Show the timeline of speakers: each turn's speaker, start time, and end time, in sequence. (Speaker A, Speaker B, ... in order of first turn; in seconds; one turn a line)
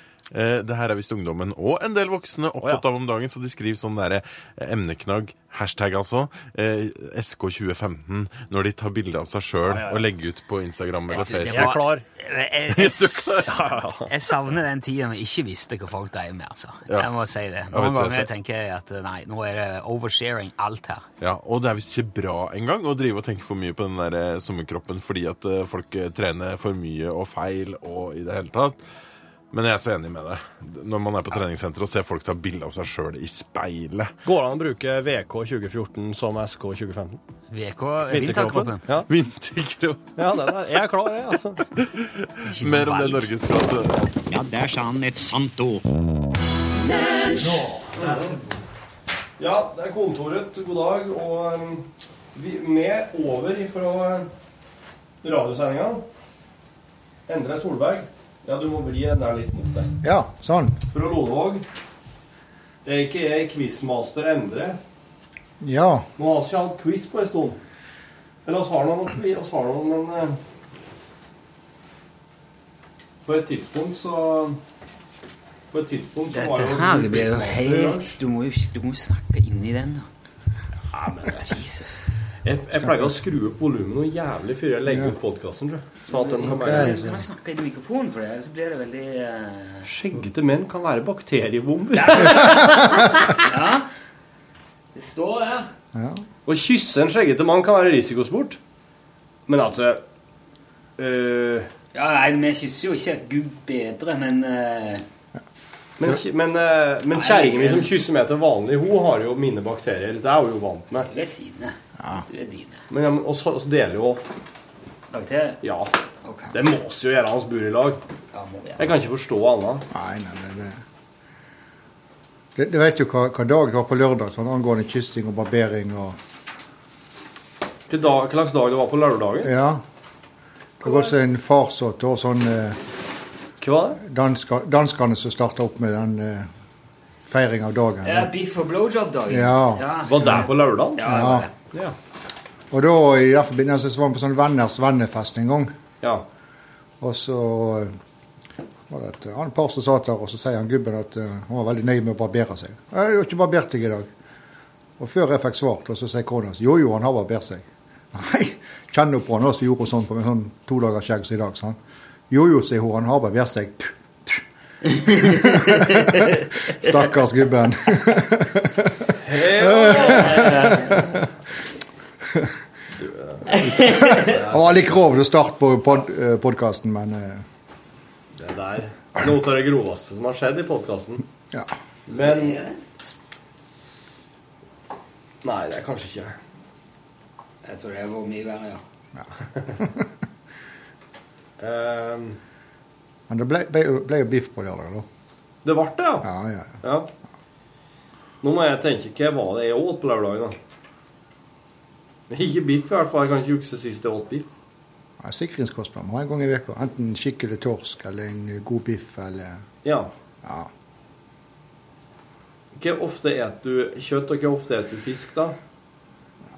Speaker A: 0.3-11.8
Speaker B: 2.6-2.8
Speaker B: 9.6-10.1
Speaker C: 11.1-21.1
Speaker B: 11.2-12.0
Speaker A: 12.7-13.5
Speaker B: 13.4-14.1
Speaker A: 16.9-17.1
Speaker A: 17.7-18.3
Speaker A: 21.2-28.8
Speaker A: 29.5-34.1
Speaker B: 34.2-37.2
Speaker C: 37.5-38.8
Speaker B: 38.1-39.1
Speaker A: 39.0-40.6
Speaker B: 40.1-41.6
Speaker A: 41.7-44.1
Speaker C: 42.4-43.3
Speaker D: 44.3-45.8
Speaker D: 46.8-47.5
Speaker B: 47.6-48.4
Speaker B: 49.4-54.3
Speaker B: 55.2-56.0
Speaker B: 57.3-60.0
Speaker E: 60.0-60.8
Speaker B: 60.9-61.6
Speaker B: 62.8-64.8
Speaker E: 65.6-66.1
Speaker B: 66.2-67.6
Speaker B: 68.5-70.4
Speaker B: 73.2-74.6
Speaker B: 75.7-78.1
Speaker C: 76.3-80.1
Speaker C: 80.9-82.1
Speaker B: 82.4-87.1
Speaker C: 86.1-89.9
Speaker E: 86.5-87.2
Speaker B: 89.8-92.9
Speaker C: 91.9-93.9
Speaker E: 92.4-93.1
Speaker C: 94.9-95.7
Speaker E: 95.9-96.2
Speaker B: 96.5-98.6
Speaker B: 99.5-100.0
Speaker B: 101.0-101.7
Speaker C: 101.9-105.0
Speaker B: 106.0-111.1
Speaker C: 107.1-107.9
Speaker C: 111.1-112.8
Speaker E: 112.0-112.2
Speaker B: 112.9-114.2
Speaker C: 115.1-115.6
Speaker B: 115.6-115.9
Speaker C: 116.2-116.5
Speaker B: 116.5-118.0
Speaker C: 118.3-118.9
Speaker B: 118.8-119.8
Speaker E: 119.9-120.8
Speaker E: 122.5-126.2
Speaker B: 127.9-129.5
Speaker E: 129.4-129.8
Speaker E: 130.8-132.8
Speaker B: 133.6-134.0
Speaker E: 134.0-136.5
Speaker E: 137.2-138.3
Speaker C: 138.0-141.5
Speaker E: 139.3-140.4
Speaker B: 140.1-141.2
Speaker E: 141.0-141.5
Speaker E: 142.7-145.7
Speaker E: 147.0-147.9
Speaker E: 148.9-154.1
Speaker E: 155.0-161.8
Speaker E: 162.3-164.4
Speaker E: 165.1-169.1
Speaker B: 169.2-170.8
Speaker E: 169.6-171.2
Speaker C: 169.7-171.2
Speaker B: 172.9-175.0
Speaker C: 173.5-174.4
Speaker E: 173.8-177.4
Speaker B: 178.3-181.2
Speaker B: 182.1-182.6
Speaker C: 182.2-182.8
Speaker B: 185.4-186.4
Speaker C: 187.6-188.8
Speaker E: 189.2-190.1
Speaker B: 191.6-192.4
Speaker E: 193.3-195.1
Speaker B: 195.6-196.3
Speaker E: 196.2-196.8
Speaker B: 196.8-197.1
Speaker B: 198.4-200.6
Speaker B: 202.3-204.5
Speaker E: 205.2-209.6
Speaker B: 209.8-210.1
Speaker E: 210.4-210.7
Speaker B: 212.7-215.6